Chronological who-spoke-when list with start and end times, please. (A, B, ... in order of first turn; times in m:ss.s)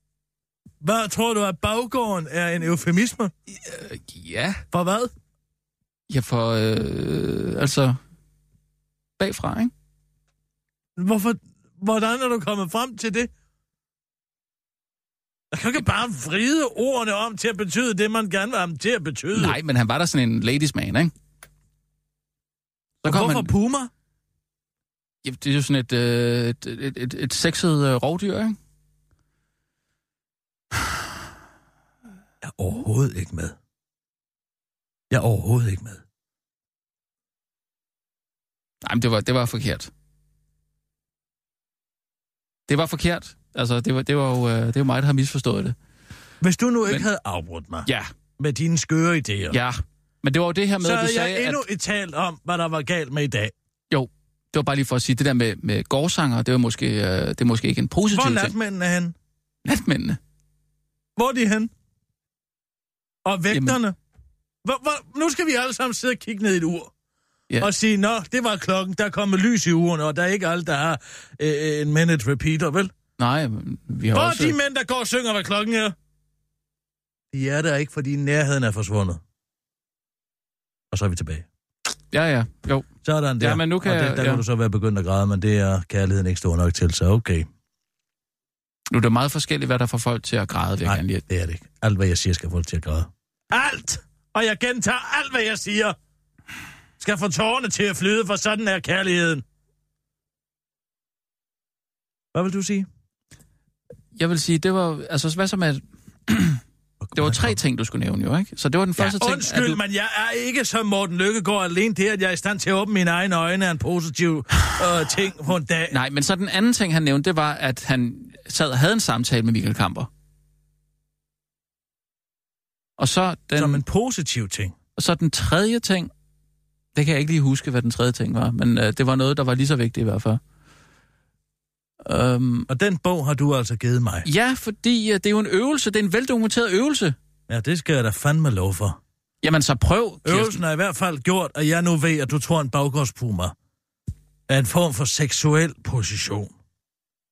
0:00.8-0:03.3 A
0:03.6-0:04.6 B
0:04.7-0:05.1 A
0:06.1-0:08.0 B
0:09.2-0:09.7 B
0:11.0-0:13.3 A
0:15.5-0:19.6 A
0:19.3-0:21.1 B
0:23.0-0:23.9 A
0:23.0-0:23.5 B
0:25.2-0:28.6 B
0:32.4-0:33.6 A
0:35.1-0:36.0 A
0:38.8-0:39.9 B
0:42.7-0:45.8 B
0:46.4-0:47.9 A
0:48.4-0:49.6 A
0:49.5-0:51.6 B
0:50.8-0:53.5 A
0:53.9-0:58.5 B
0:58.1-0:59.2 A
0:59.6-1:00.2 B
1:01.2-1:01.7 A
1:03.2-1:04.0 A
1:03.5-1:03.8 B
1:04.6-1:06.9 A
1:07.6-1:12.9 A
1:13.2-1:14.6 B
1:14.1-1:16.0 A
1:17.3-1:19.2 A
1:20.9-1:21.5 A
1:22.1-1:22.9 B
1:23.0-1:27.5 A
1:23.4-1:24.4 B
1:28.9-1:31.2 B
1:30.8-1:36.0 A
1:37.0-1:39.4 A
1:42.3-1:42.9 A
1:44.2-1:46.6 B
1:47.0-1:47.6 A
1:47.2-1:49.8 B
1:49.0-1:56.0 A
1:55.9-2:00.1 B
2:03.0-2:03.8 B
2:03.6-2:04.8 A
2:05.0-2:06.1 B
2:07.0-2:10.4 B
2:12.0-2:12.7 B
2:12.7-2:14.3 A
2:14.2-2:17.2 B
2:17.5-2:19.0 A
2:19.4-2:20.6 B
2:20.2-2:23.6 A
2:24.5-2:26.5 A